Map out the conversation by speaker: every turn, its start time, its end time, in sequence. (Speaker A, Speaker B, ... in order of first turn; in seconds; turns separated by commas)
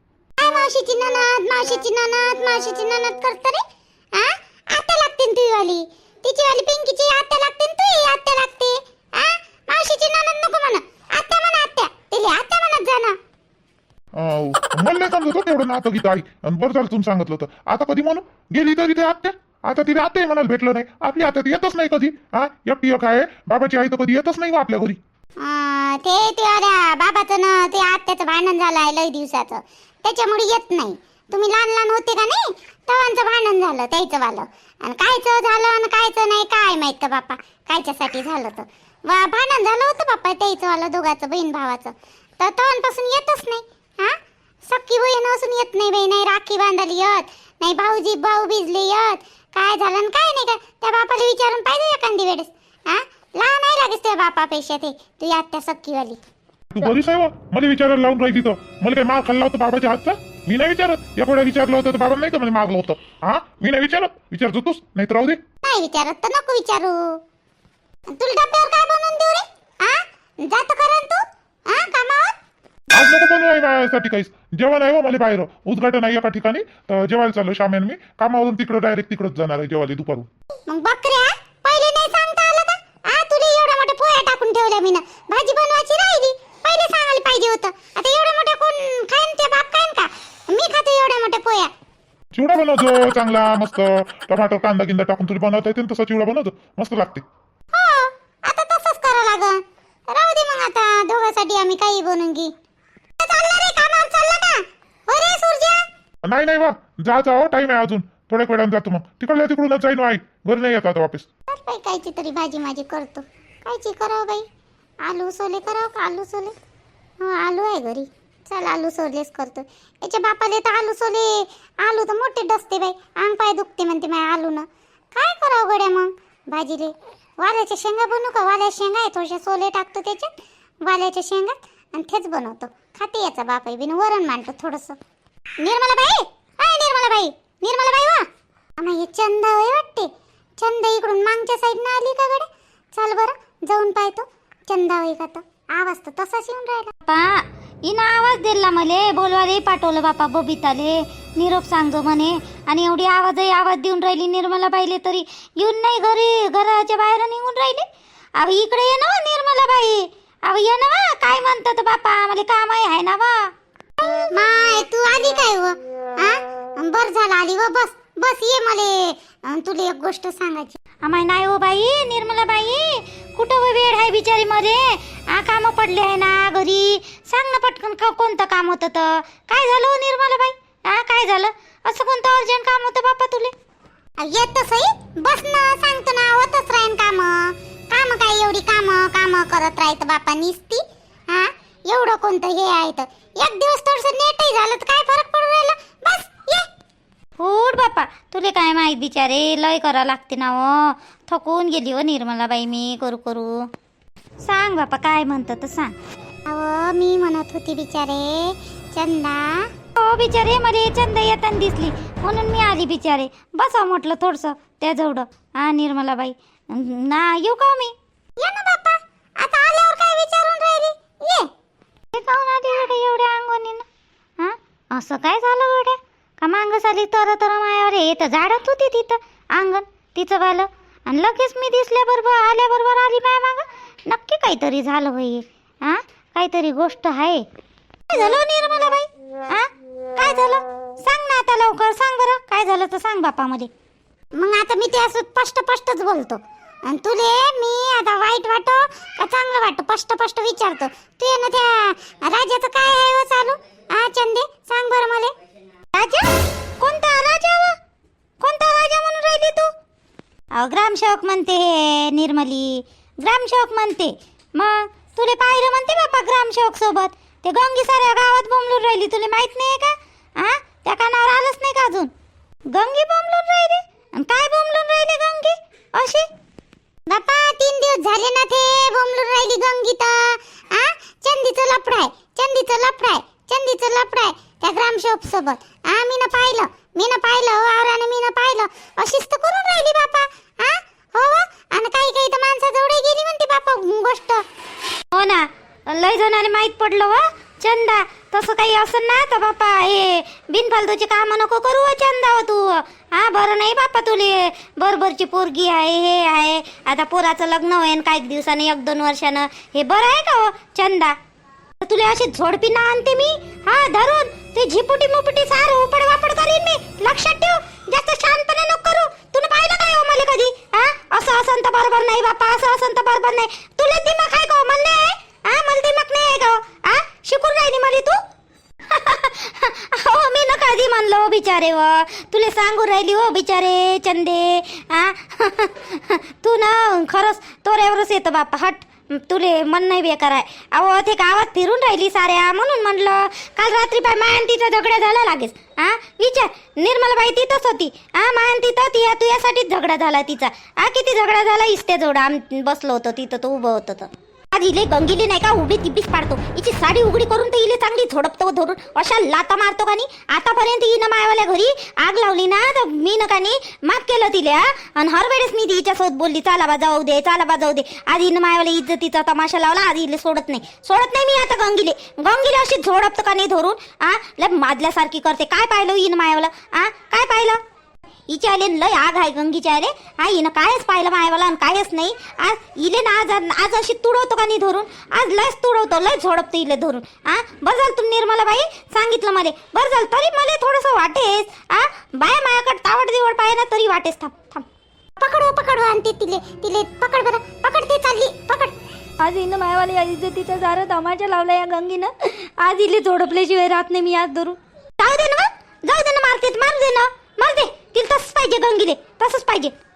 Speaker A: 0.4-3.6, Speaker A: 4.1-13.2, Speaker B: 14.1-25.0, Speaker A: 25.4-44.2, Speaker A: 44.7-56.2, Speaker B: 56.7-65.4, Speaker A: 65.6-67.0, Speaker A: 68.1-72.3, Speaker B: 72.9-80.3, Speaker A: 80.7-91.7, Speaker B: 92.3-97.2, Speaker A: 97.7-102.5, Speaker A: 103.2-105.8, Speaker B: 106.2-111.3, Speaker A: 111.5-114.4, Speaker A: 115.0-116.5, Speaker A: 117.2-130.3, Speaker A: 130.8-135.0, Speaker A: 135.6-138.2, Speaker A: 138.8-146.9, Speaker C: 147.8-163.5, Speaker A: 164.0-170.8, Speaker C: 171.0-183.5, Speaker A: 184.2-196.7, Speaker C: 197.4-203.7, Speaker C: 204.4-205.9, Speaker A: 206.5-209.6, Speaker C: 209.9-217.9, Speaker A: 218.4-221.5, Speaker C: 222.1-223.8, Speaker C: 224.4-237.4, Speaker C: 238.1-243.7, Speaker A: 244.3-255.3, Speaker C: 255.9-256.3, Speaker C: 256.8-257.8, Speaker C: 258.4-259.7, Speaker C: 260.5-272.1, Speaker C: 272.7-276.3, Speaker A: 277.1-294.4, Speaker C: 295.1-311.1, Speaker C: 311.8-328.2, Speaker C: 328.9-377.6, Speaker C: 378.3-394.7, Speaker A: 395.2-398.8, Speaker C: 399.2-409.7